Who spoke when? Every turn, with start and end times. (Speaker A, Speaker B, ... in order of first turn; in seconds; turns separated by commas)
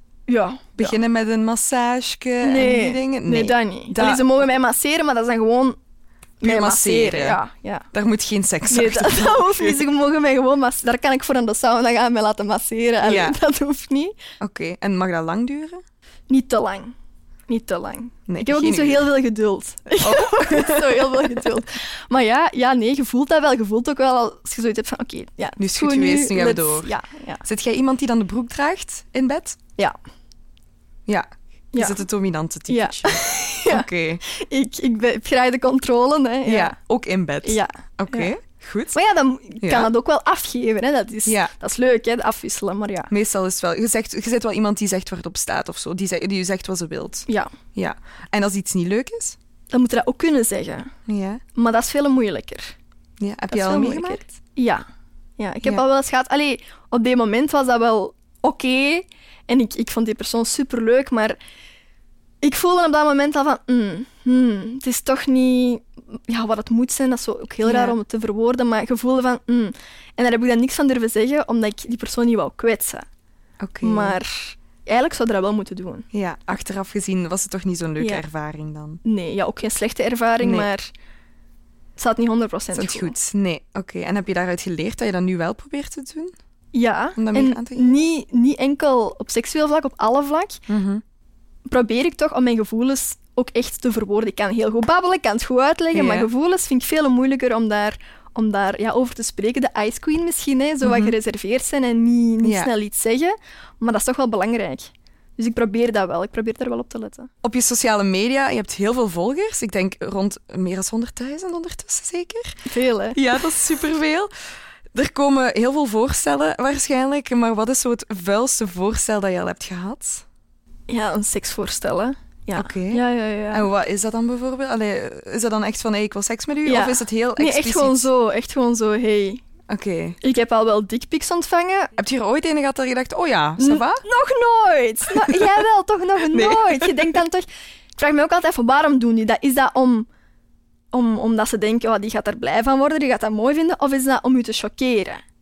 Speaker A: 0.3-1.0, Speaker B: 0.8-4.5, Speaker A: 2.4-5.8, Speaker A: 6.4-7.9, Speaker B: 6.4-7.4, Speaker B: 7.9-9.8, Speaker A: 8.7-14.1, Speaker B: 13.0-13.3, Speaker B: 14.4-15.8, Speaker A: 16.3-16.9, Speaker A: 17.5-27.4, Speaker B: 18.3-19.1, Speaker B: 20.0-21.4, Speaker B: 25.6-29.6, Speaker B: 31.1-34.2, Speaker A: 31.7-32.0, Speaker A: 32.7-36.8, Speaker B: 36.4-39.0, Speaker A: 37.4-38.3, Speaker A: 38.9-43.1, Speaker B: 39.6-39.9, Speaker B: 41.2-41.5, Speaker B: 43.1-49.4, Speaker A: 49.7-50.9, Speaker B: 51.0-51.4, Speaker A: 51.5-52.7, Speaker B: 53.2-54.2, Speaker A: 53.5-54.8, Speaker A: 55.4-61.4, Speaker A: 62.4-73.0, Speaker B: 67.6-68.0, Speaker B: 73.6-74.2, Speaker A: 73.8-76.0, Speaker B: 76.1-79.0, Speaker A: 78.0-78.2, Speaker A: 79.0-80.9, Speaker B: 80.4-80.7, Speaker A: 82.0-83.1, Speaker B: 82.7-86.3, Speaker A: 86.7-90.6, Speaker B: 87.2-88.0, Speaker B: 90.7-91.0, Speaker A: 91.7-107.3, Speaker B: 95.9-96.3, Speaker B: 100.8-101.1, Speaker B: 102.4-102.7, Speaker B: 107.4-112.5, Speaker A: 112.7-113.2, Speaker B: 113.1-114.3, Speaker B: 114.9-120.2, Speaker A: 120.9-123.7, Speaker B: 122.5-128.1, Speaker A: 126.6-129.4, Speaker B: 129.7-130.2, Speaker A: 130.2-131.9, Speaker B: 132.0-134.0, Speaker A: 133.6-140.1, Speaker B: 135.1-135.6, Speaker B: 136.2-137.2, Speaker A: 140.9-145.2